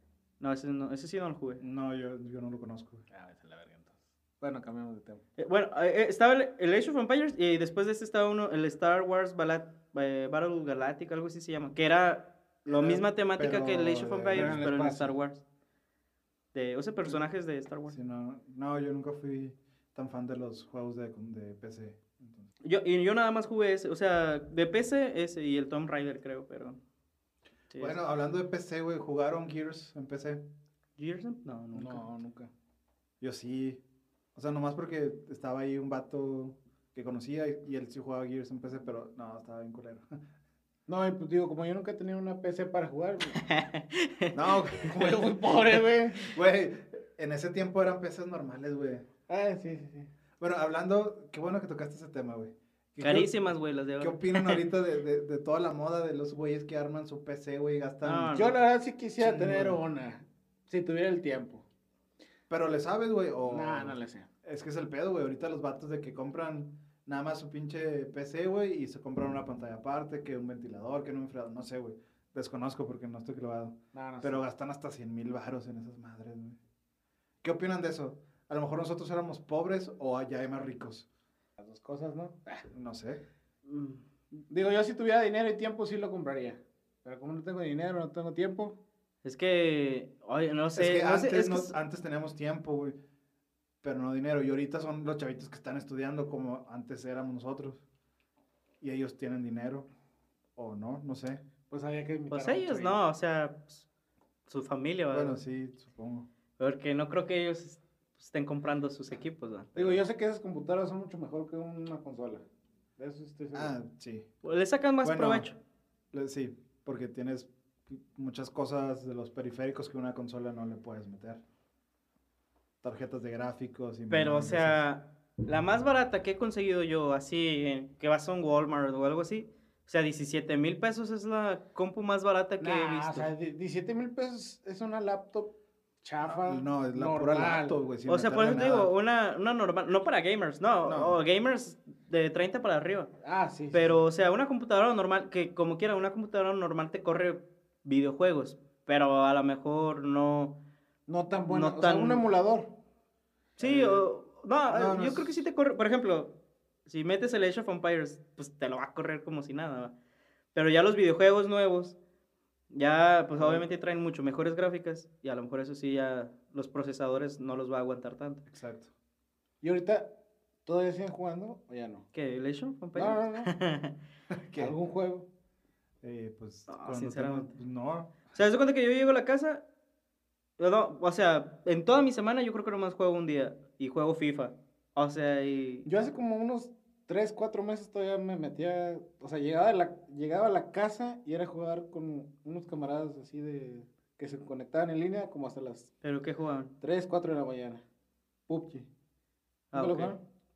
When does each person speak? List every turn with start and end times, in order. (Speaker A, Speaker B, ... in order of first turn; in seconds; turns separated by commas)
Speaker A: 0.4-1.6, Speaker B: 1.6-3.0, Speaker C: 3.1-5.2, Speaker A: 5.4-15.4, Speaker B: 12.6-14.7, Speaker C: 14.3-15.1, Speaker A: 16.5-18.0, Speaker B: 17.9-22.5, Speaker A: 22.6-26.8, Speaker A: 27.7-28.0, Speaker B: 27.8-30.4, Speaker A: 31.0-32.1, Speaker C: 31.8-32.5, Speaker B: 33.2-33.8, Speaker B: 34.3-40.1, Speaker C: 40.9-43.4, Speaker A: 43.3-44.6, Speaker B: 44.3-45.3, Speaker C: 44.9-46.3, Speaker B: 46.1-49.1, Speaker C: 49.3-50.1, Speaker B: 50.4-53.3, Speaker A: 53.0-54.6, Speaker B: 54.0-58.3, Speaker A: 58.0-58.6, Speaker C: 58.3-61.6, Speaker B: 59.2-59.8, Speaker B: 62.5-76.6, Speaker C: 63.4-64.3, Speaker C: 73.9-74.4, Speaker B: 77.4-81.1, Speaker C: 81.6-82.7, Speaker B: 82.7-83.2, Speaker A: 83.7-84.0, Speaker C: 84.5-88.8, Speaker A: 89.2-91.7, Speaker B: 90.7-93.0, Speaker B: 93.8-97.8, Speaker B: 98.8-99.9, Speaker B: 100.5-101.4, Speaker C: 101.7-103.0, Speaker A: 102.3-103.8, Speaker A: 104.5-105.4, Speaker B: 105.1-106.3, Speaker A: 106.6-110.0, Speaker C: 109.8-112.5, Speaker C: 113.0-113.7, Speaker B: 113.5-114.3, Speaker A: 114.4-115.6, Speaker B: 115.0-115.5, Speaker B: 116.1-121.4, Speaker B: 122.8-124.8, Speaker A: 124.1-133.3, Speaker C: 132.6-137.8, Speaker B: 136.2-138.9, Speaker A: 138.1-143.1, Speaker B: 140.8-141.2, Speaker C: 143.2-144.0, Speaker A: 143.7-150.6, Speaker C: 151.1-152.8, Speaker A: 151.4-152.2, Speaker A: 153.6-156.3, Speaker B: 153.6-154.0, Speaker B: 154.7-155.4, Speaker A: 156.9-159.9, Speaker A: 160.5-162.0, Speaker A: 162.7-168.4, Speaker C: 163.4-163.6, Speaker B: 168.5-168.9, Speaker C: 169.6-170.1, Speaker C: 170.7-172.1, Speaker A: 172.1-174.0, Speaker C: 172.9-173.5, Speaker B: 174.3-174.7, Speaker C: 174.6-175.3, Speaker B: 176.0-178.2, Speaker A: 176.7-177.5, Speaker A: 178.3-179.6, Speaker A: 180.6-185.9, Speaker C: 185.8-195.9, Speaker A: 196.0-196.8, Speaker C: 196.8-197.8, Speaker C: 198.5-198.9, Speaker A: 199.7-200.1, Speaker C: 199.7-200.2